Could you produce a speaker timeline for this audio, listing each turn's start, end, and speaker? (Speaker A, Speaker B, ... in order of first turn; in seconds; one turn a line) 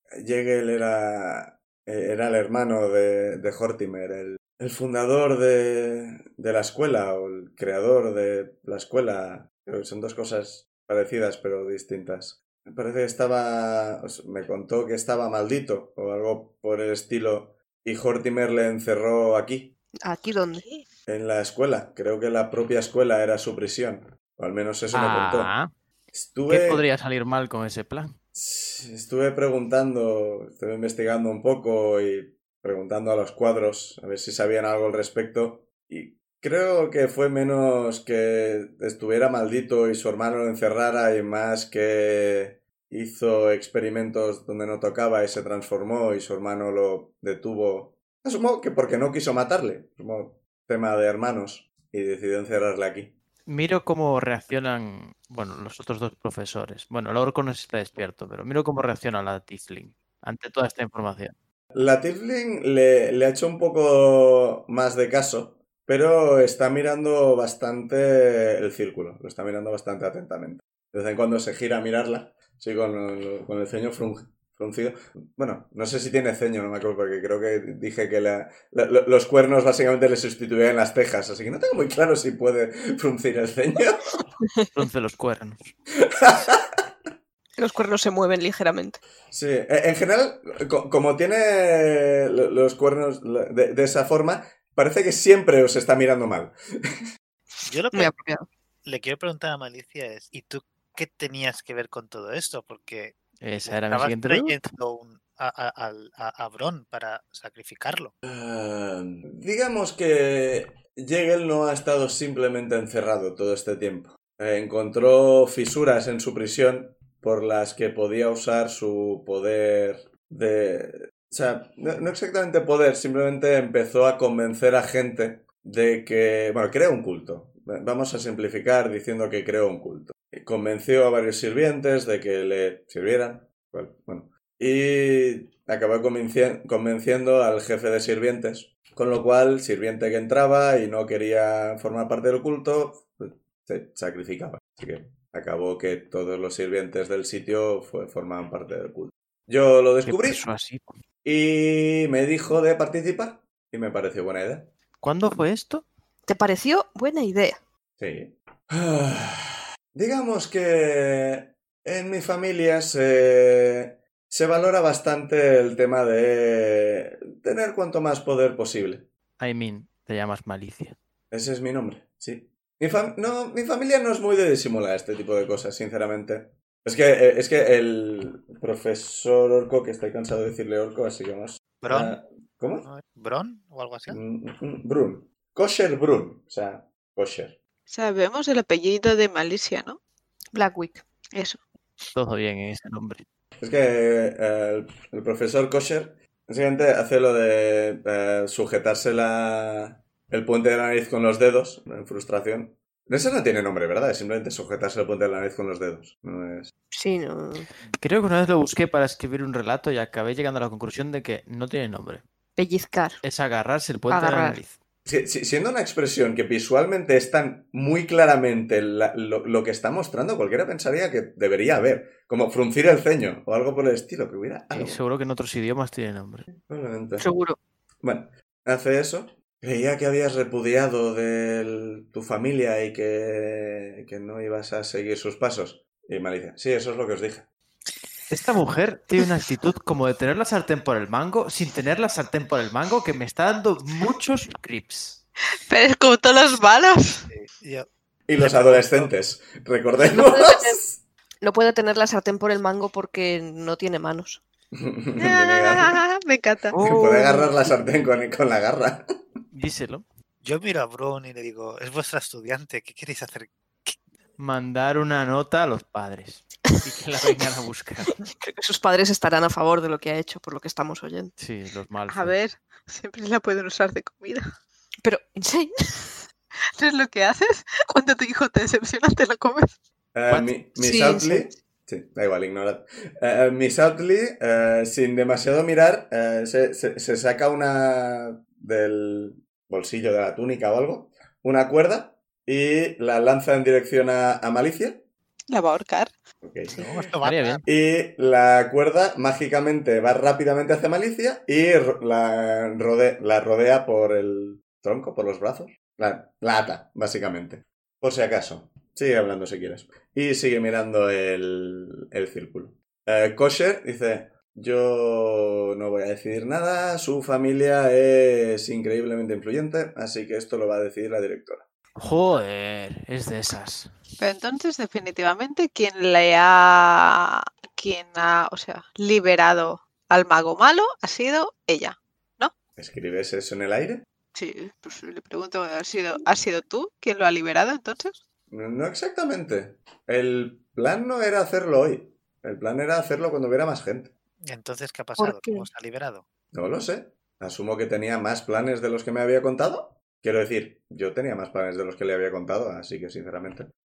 Speaker A: 0.2-19.7
Speaker B: 20.0-20.6
Speaker C: 20.5-20.9
Speaker A: 21.1-25.5
Speaker D: 24.9-25.7
Speaker A: 26.1-26.8
Speaker D: 26.5-28.2
Speaker A: 28.3-53.1
Speaker D: 53.5-61.3
Speaker A: 61.7-84.2
Speaker D: 84.7-85.7
Speaker A: 86.1-86.8
Speaker B: 87.6-89.0
Speaker A: 89.3-97.0
Speaker E: 97.6-98.1
Speaker B: 97.9-98.5
Speaker E: 98.8-108.1
Speaker D: 103.4-104.6
Speaker A: 108.2-150.4
Speaker D: 150.1-151.0
Speaker A: 151.2-154.7
Speaker D: 155.0-155.8
Speaker B: 156.3-157.6
Speaker A: 158.0-169.1
Speaker D: 169.4-170.9
Speaker A: 171.3-182.9
Speaker E: 181.8-182.2
Speaker E: 182.8-184.2
Speaker A: 184.1-187.6
Speaker C: 187.9-190.0
Speaker B: 190.5-191.0
Speaker C: 191.3-191.6
Speaker D: 192.1-193.2
Speaker A: 193.6-206.7
Speaker B: 206.9-207.7
Speaker D: 208.0-212.2
Speaker B: 212.6-213.2
Speaker D: 213.2-214.8
Speaker B: 214.1-214.6
Speaker A: 215.1-225.0
Speaker D: 224.7-226.5
Speaker A: 226.6-227.3
Speaker B: 227.2-227.6
Speaker A: 228.0-237.5
Speaker D: 238.3-245.2
Speaker C: 245.7-247.3
Speaker E: 247.3-249.1
Speaker A: 248.3-251.0
Speaker B: 250.1-250.8
Speaker B: 251.4-254.4
Speaker A: 254.7-256.0
Speaker C: 255.2-256.8
Speaker B: 256.8-257.5
Speaker A: 256.8-259.1
Speaker D: 259.5-260.0
Speaker E: 260.4-263.9
Speaker D: 264.4-268.1
Speaker B: 268.1-271.3
Speaker D: 271.4-272.3
Speaker C: 272.1-274.4
Speaker B: 275.0-276.2
Speaker C: 276.8-279.8
Speaker A: 280.1-295.0
Speaker B: 280.8-281.5
Speaker C: 295.5-296.1
Speaker A: 296.4-296.9
Speaker E: 296.7-297.6
Speaker D: 297.2-297.6
Speaker A: 297.6-321.6
Speaker D: 321.9-323.9
Speaker C: 324.2-332.5
Speaker A: 332.8-334.0
Speaker C: 334.3-338.2
Speaker A: 338.5-344.1
Speaker E: 344.4-346.2
Speaker B: 345.2-345.7
Speaker A: 346.5-353.7